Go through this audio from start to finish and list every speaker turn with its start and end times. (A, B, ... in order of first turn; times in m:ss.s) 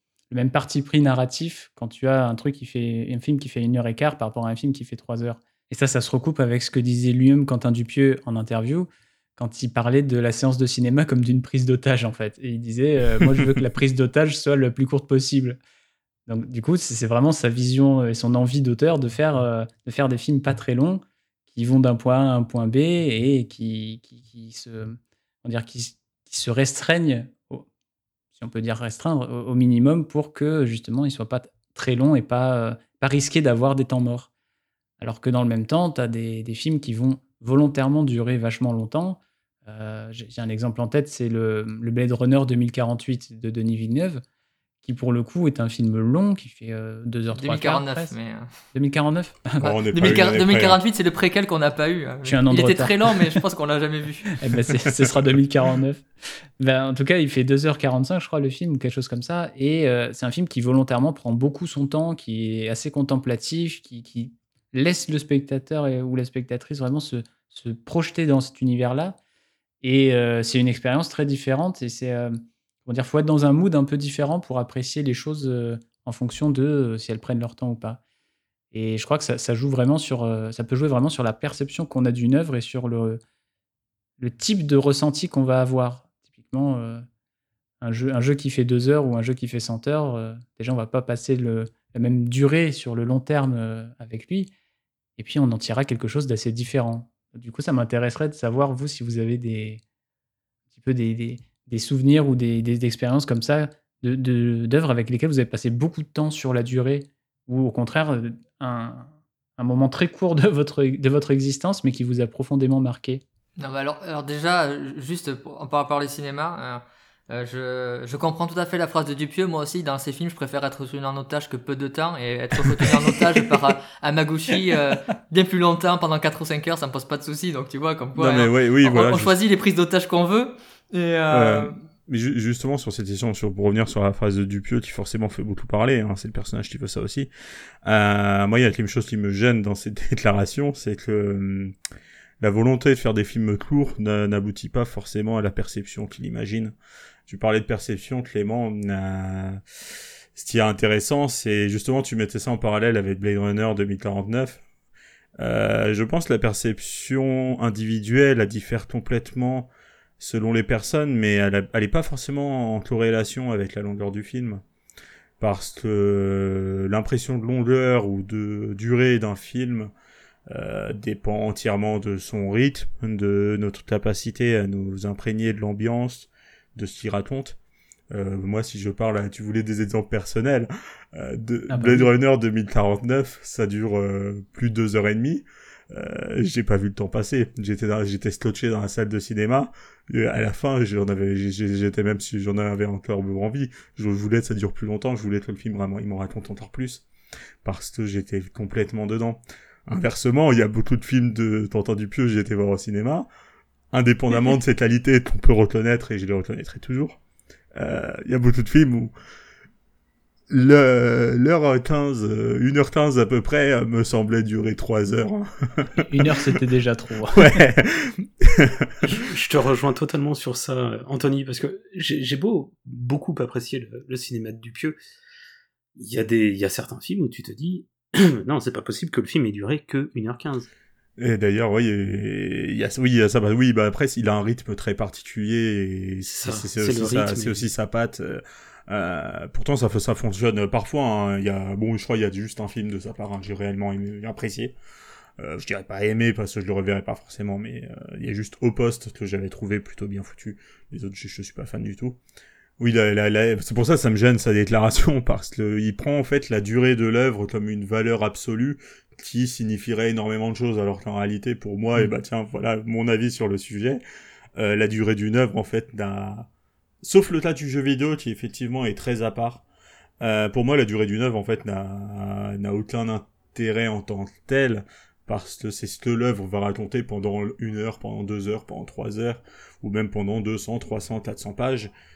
0:00.3-0:15.6 A
0:16.3-0:27.7 A
0:28.4-0:34.3 A
0:35.0-0:44.2 A
0:44.8-0:48.1 A
0:47.3-0:48.5 B
0:48.7-0:49.6 A
0:49.6-0:50.8 C
0:49.6-0:54.4 B
0:52.2-0:53.4 A
0:54.4-0:56.0 A
0:56.6-1:09.2 A
1:09.8-1:18.0 A
1:18.7-1:23.2 A
1:24.2-1:27.0 A
1:27.8-1:34.5 A
1:35.2-1:39.8 A
1:40.7-1:53.2 A
1:53.6-2:11.8 B
2:08.2-2:09.4 C
2:11.3-2:17.3 C
2:17.8-2:21.7 C
2:22.4-2:26.7 C
2:27.3-2:29.6 C
2:30.4-2:34.6 C
2:35.4-2:44.6 C
2:45.4-2:49.9 C
2:50.5-2:57.6 C
2:58.1-3:17.0 C
3:01.7-3:02.1 A
3:17.6-3:23.3 C
3:23.9-3:27.2 C
3:27.8-3:29.1 C
3:30.5-3:36.4 C
3:36.0-3:37.6 A
3:37.4-3:38.9 C
3:39.0-3:45.0 D
3:46.0-3:50.7 D
3:51.2-4:04.7 C
3:56.2-3:57.7 D
4:05.4-4:12.2 C
4:12.8-4:24.0 C
4:24.6-4:26.5 C
4:27.0-4:29.6 C
4:30.2-4:41.9 C